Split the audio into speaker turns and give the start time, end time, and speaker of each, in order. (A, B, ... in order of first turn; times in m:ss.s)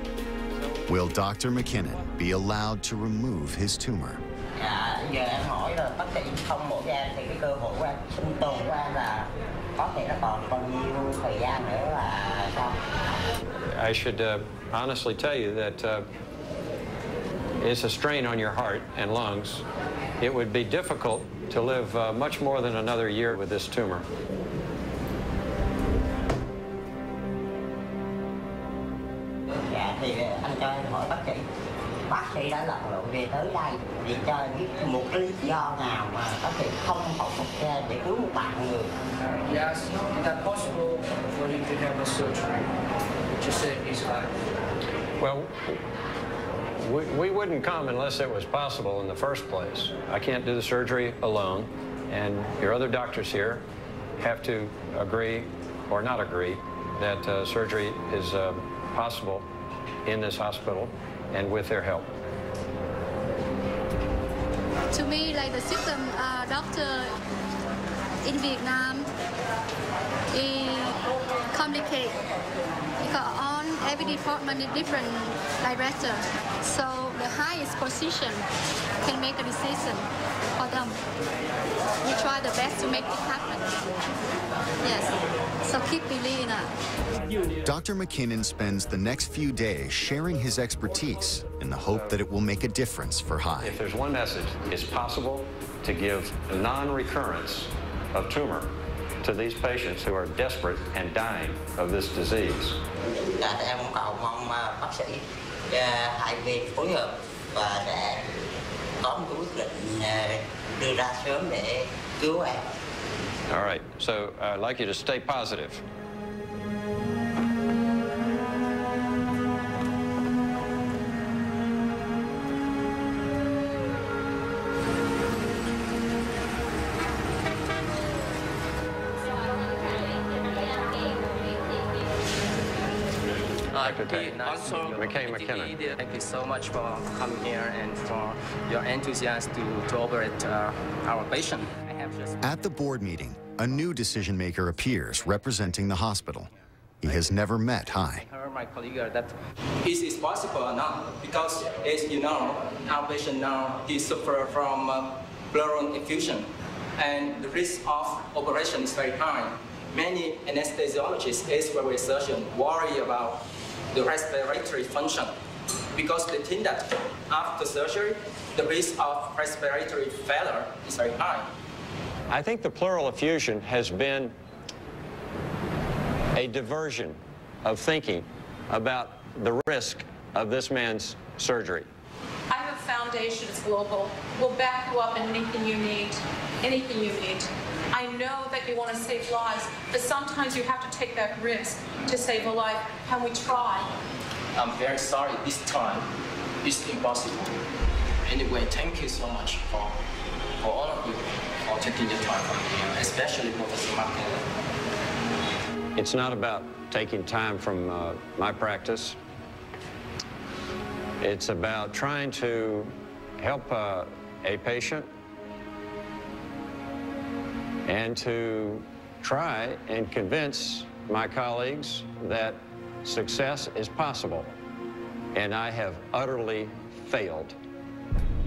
0:00.9-0:04.2 A
0:04.6-0:12.8 B
0:13.6-0:16.0 C
0:17.6-0:19.6 C
0:20.2-0:24.1 C
0:29.5-0:31.4 B
0:32.1-0:38.9 B
0:39.3-0:42.7 D
0:43.4-0:44.3 D
0:45.2-0:45.8 C
0:46.8-0:53.6 C
0:54.2-0:59.4 C
1:00.0-1:02.1 C
1:04.9-1:07.1 E
1:08.2-1:09.1 E
1:10.3-1:11.0 E
1:11.5-1:12.2 E
1:13.0-1:18.4 E
1:19.0-1:21.0 E
1:22.0-1:23.8 E
1:24.8-1:26.7 E
1:27.6-1:33.8 A
1:33.6-1:42.8 C
1:43.3-1:48.2 B
1:49.0-1:52.6 B
1:53.5-1:55.8 C
2:13.7-2:22.7 F
2:13.7-2:15.8 C
2:22.4-2:26.5 A
2:25.0-2:26.2 F
2:27.0-2:28.2 A
2:27.0-2:45.3 F
2:45.9-2:51.5 F
2:52.3-2:54.4 C
2:56.4-3:01.9 C
3:02.5-3:13.9 G
3:14.6-3:16.1 F
3:16.6-3:17.6 F
3:18.2-3:20.0 F
3:20.6-3:24.5 F
3:25.9-3:29.2 C
3:31.2-3:35.1 C
3:37.9-3:44.5 C
3:45.3-3:47.6 C